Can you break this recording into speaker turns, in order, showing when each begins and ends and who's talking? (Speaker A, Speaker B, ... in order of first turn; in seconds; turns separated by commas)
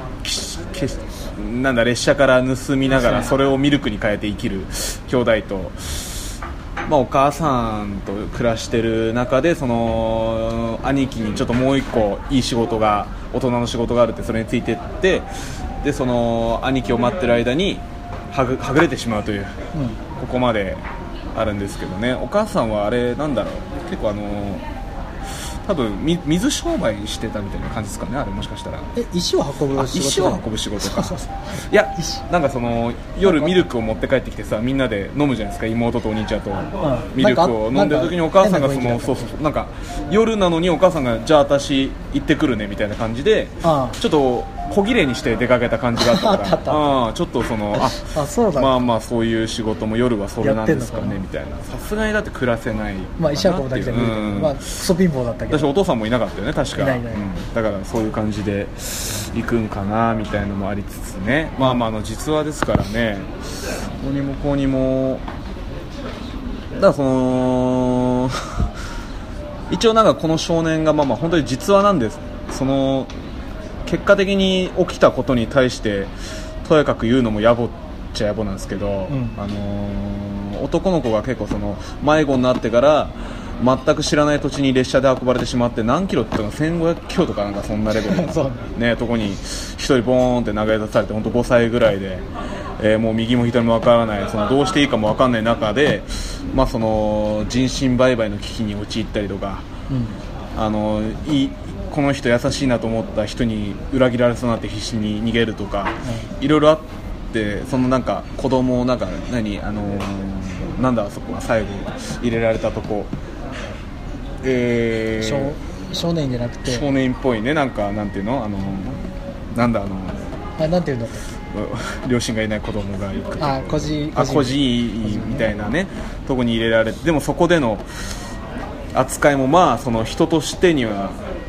Speaker A: 0.2-6.2, Speaker B: 2.9-3.3, Speaker A: 6.8-15.3, Speaker A: 15.8-19.6, Speaker A: 20.1-20.8, Speaker A: 21.3-24.6, Speaker A: 25.6-28.9, Speaker B: 28.9-31.2, Speaker A: 29.7-54.8, Speaker B: 33.2-33.6, Speaker B: 36.8-39.3, Speaker B: 43.6-44.0, Speaker B: 46.0-47.0, Speaker B: 47.7-48.9, Speaker B: 50.4-51.2, Speaker B: 53.2-55.7, Speaker A: 55.5-63.3, Speaker B: 56.8-57.3, Speaker B: 61.6-61.9, Speaker A: 64.0-65.2, Speaker A: 66.8-68.6, Speaker A: 69.7-73.1, Speaker A: 73.8-76.1, Speaker A: 76.6-92.3, Speaker B: 79.1-79.4, Speaker B: 88.0-88.7, Speaker A: 92.8-99.7, Speaker B: 99.9-100.2, Speaker A: 100.5-113.1, Speaker B: 106.0-106.3, Speaker A: 114.4-115.5, Speaker B: 115.2-116.9, Speaker A: 116.6-120.3, Speaker B: 120.6-121.3, Speaker A: 121.5-128.1, Speaker B: 123.4-125.5, Speaker A: 128.9-131.2